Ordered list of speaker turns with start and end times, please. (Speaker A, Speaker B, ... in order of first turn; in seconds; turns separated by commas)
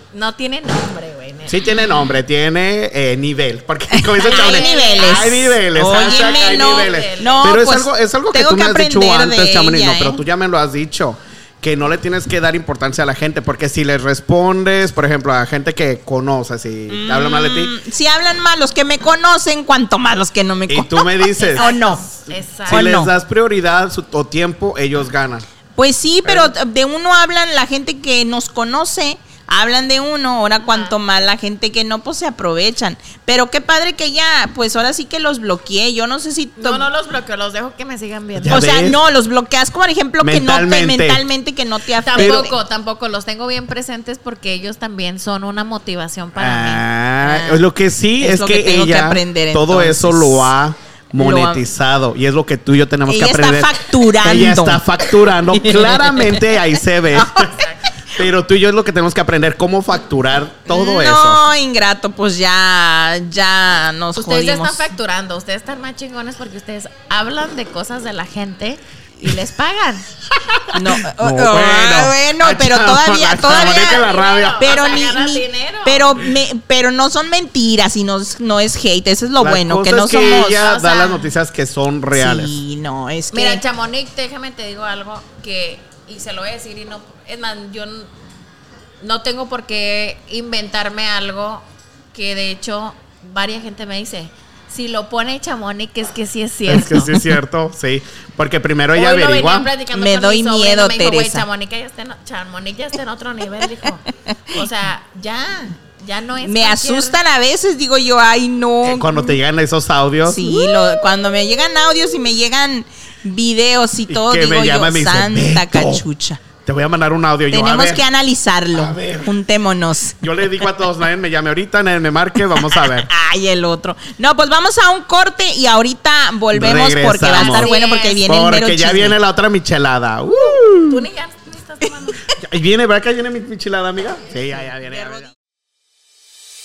Speaker A: 0.1-1.7, Speaker B: 1.5-17.7, Speaker C: 3.9-10.2, Speaker A: 4.2-7.6, Speaker C: 16.9-22.1, Speaker B: 20.7-21.8, Speaker A: 21.6-22.9, Speaker B: 22.7-25.5, Speaker C: 22.7-23.1, Speaker C: 25.8-36.9, Speaker B: 26.2-26.6, Speaker A: 30.6-31.0, Speaker A: 36.6-38.6, Speaker B: 38.4-39.0, Speaker C: 38.5-42.5, Speaker B: 40.2-41.2, Speaker A: 42.0-46.8, Speaker B: 42.2-42.5, Speaker B: 46.4-57.6, Speaker C: 47.2-47.6, Speaker C: 48.2-50.5, Speaker C: 51.1-51.6, Speaker C: 53.1-57.6, Speaker A: 57.5-57.8, Speaker B: 58.1-61.4, Speaker C: 60.7-64.9, Speaker A: 64.1-70.1, Speaker B: 70.4-74.8, Speaker C: 70.7-74.0, Speaker A: 73.5-76.2, Speaker C: 74.6-80.6, Speaker B: 79.4-82.6, Speaker A: 80.1-81.3, Speaker C: 82.2-83.6, Speaker A: 83.3-88.1, Speaker A: 89.0-97.2, Speaker B: 96.7-99.7, Speaker A: 99.0-107.2, Speaker C: 99.9-101.5, Speaker C: 106.4-109.3, Speaker B: 108.8-110.7, Speaker C: 110.2-116.4, Speaker B: 114.1-116.0, Speaker B: 116.6-118.0, Speaker C: 117.5-120.2, Speaker B: 118.7-119.3, Speaker B: 120.2-123.1, Speaker C: 122.5-129.2, Speaker B: 126.5-131.1, Speaker A: 127.3-128.3, Speaker A: 130.3-132.2, Speaker B: 132.4-135.3